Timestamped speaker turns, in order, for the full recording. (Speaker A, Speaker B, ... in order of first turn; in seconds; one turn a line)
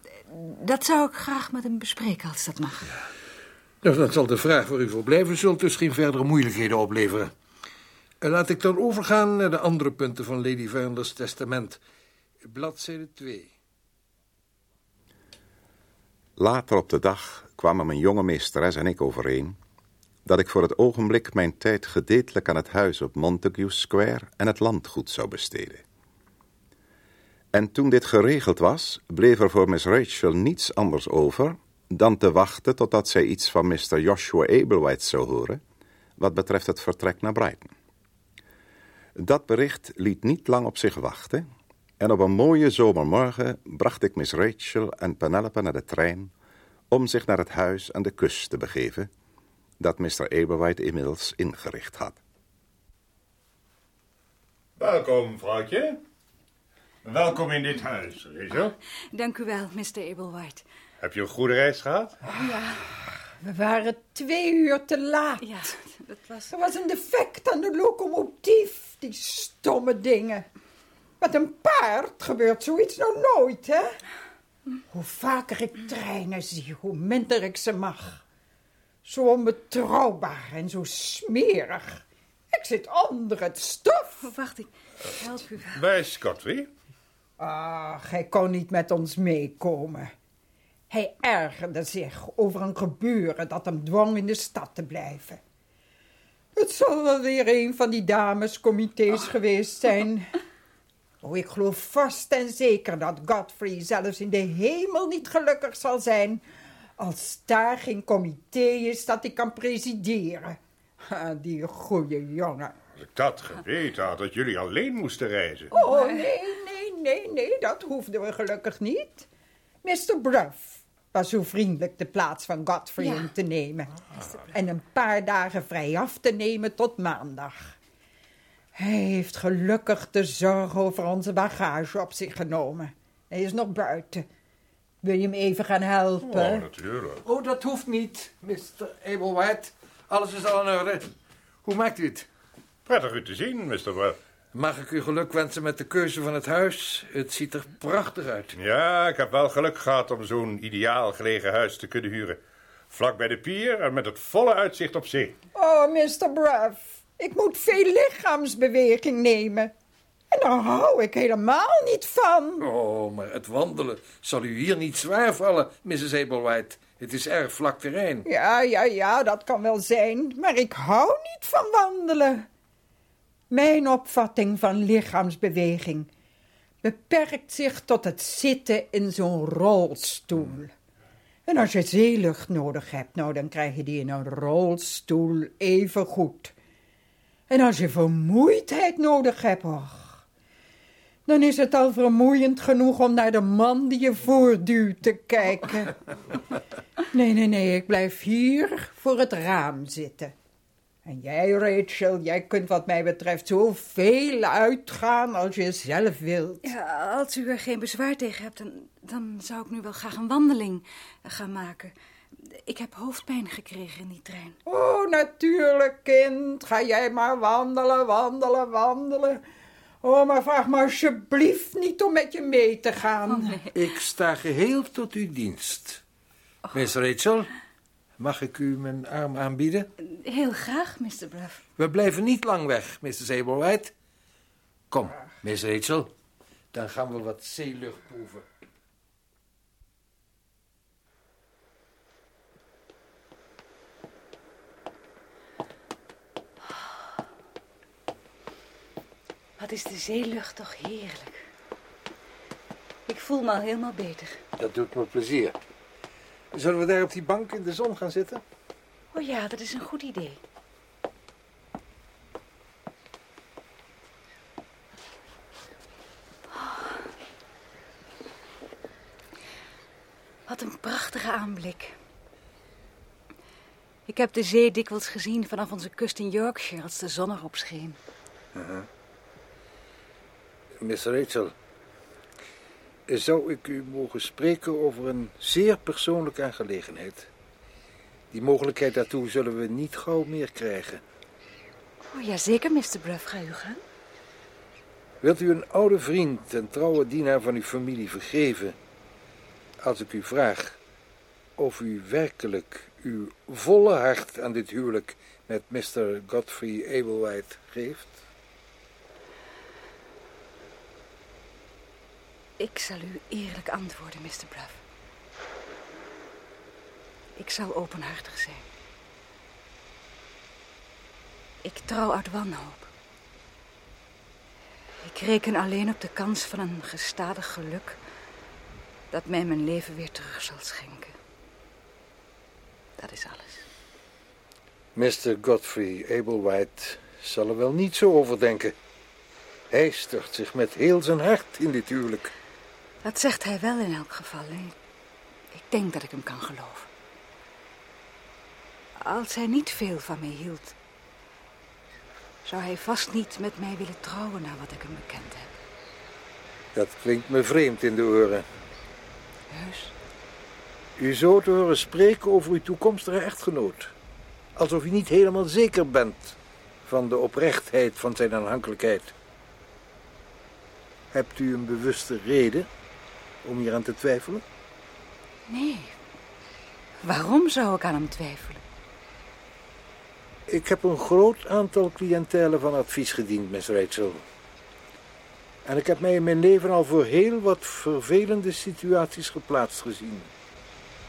Speaker A: 0.3-2.9
Speaker B: 3.8-7.3
Speaker B: 8.2-11.8
Speaker B: 12.4-13.5
Speaker C: 16.4-19.6
Speaker C: 20.2-25.8
Speaker C: 27.5-35.6
Speaker C: 36.2-37.7
Speaker C: 39.2-41.5
Speaker C: 42.0-46.3
Speaker C: 46.9-49.1
Speaker C: 49.8-52.2
Speaker D: 54.8-56.0
Speaker D: 57.0-58.7
Speaker A: 59.1-60.6
Speaker D: 61.0-62.1
Speaker A: 62.4-62.8
Speaker E: 63.4-65.4
Speaker A: 65.4-66.5
Speaker E: 66.5-70.4
Speaker E: 71.2-74.0
Speaker E: 74.9-78.2
Speaker E: 79.0-84.2
Speaker A: 84.2-85.8
Speaker D: 85.7-86.7
Speaker E: 87.4-90.1
Speaker E: 90.9-95.4
Speaker E: 96.5-100.3
Speaker E: 101.2-106.4
Speaker E: 107.0-112.7
Speaker D: 113.0-115.7
Speaker A: 115.7-116.2
Speaker E: 115.7-119.3
Speaker E: 119.8-123.9
Speaker E: 124.5-127.7
Speaker E: 128.7-134.2
Speaker E: 135.0-136.7
Speaker D: 136.2-137.2
Speaker B: 137.2-141.1
Speaker B: 141.6-142.3
Speaker D: 142.8-144.2
Speaker B: 144.5-148.5
Speaker D: 148.5-155.4
Speaker E: 155.5-159.7
Speaker E: 160.3-162.6
Speaker B: 162.6-168.2
Speaker E: 168.2-172.5
Speaker E: 173.5-176.1
Speaker E: 176.8-180.7
Speaker E: 181.4-186.5
Speaker E: 187.5-190.2
Speaker E: 191.3-196.0
Speaker E: 197.1-200.3
Speaker E: 201.0-206.7
Speaker A: 206.6-211.9
Speaker A: 212.4-214.6
Speaker E: 214.7-219.4
Speaker E: 220.0-223.6
Speaker A: 223.3-223.7
Speaker B: 223.7-226.0
Speaker B: 226.7-227.5
Speaker B: 228.2-229.9
Speaker A: 230.0-231.6
Speaker B: 231.8-233.9
Speaker B: 234.9-236.1
Speaker B: 236.7-238.4
Speaker A: 249.6-251.4
Speaker A: 253.1-254.4
Speaker B: 254.6-255.5
Speaker B: 256.5-258.4
Speaker A: 259.1-260.4
Speaker A: 270.5-272.0
Speaker A: 274.1-278.0
Speaker B: 278.5-278.9
Speaker B: 280.8-281.5
Speaker B: 283.1-287.3
Speaker B: 288.3-291.0
Speaker A: 292.1-293.8
Speaker B: 295.2-298.8
Speaker B: 299.8-300.8
Speaker B: 301.6-308.2
Speaker A: 312.6-314.8
Speaker A: 317.4-318.6
Speaker A: 321.6-322.9
Speaker A: 325.0-328.0
Speaker A: 329.1-331.1
Speaker A: 333.0-333.6
Speaker B: 334.9-338.7
Speaker B: 339.7-342.3
Speaker A: 343.0-344.7
Speaker A: 345.5-346.9
Speaker A: 349.0-350.7
Speaker A: 352.4-355.5
Speaker B: 356.7-358.4
Speaker A: 359.5-359.9
Speaker B: 361.0-363.9
Speaker B: 364.6-369.1
Speaker B: 371.1-372.7
Speaker B: 373.4-374.4
Speaker A: 375.5-375.9
Speaker A: 377.0-378.6
Speaker B: 380.5-384.2
Speaker B: 385.6-390.3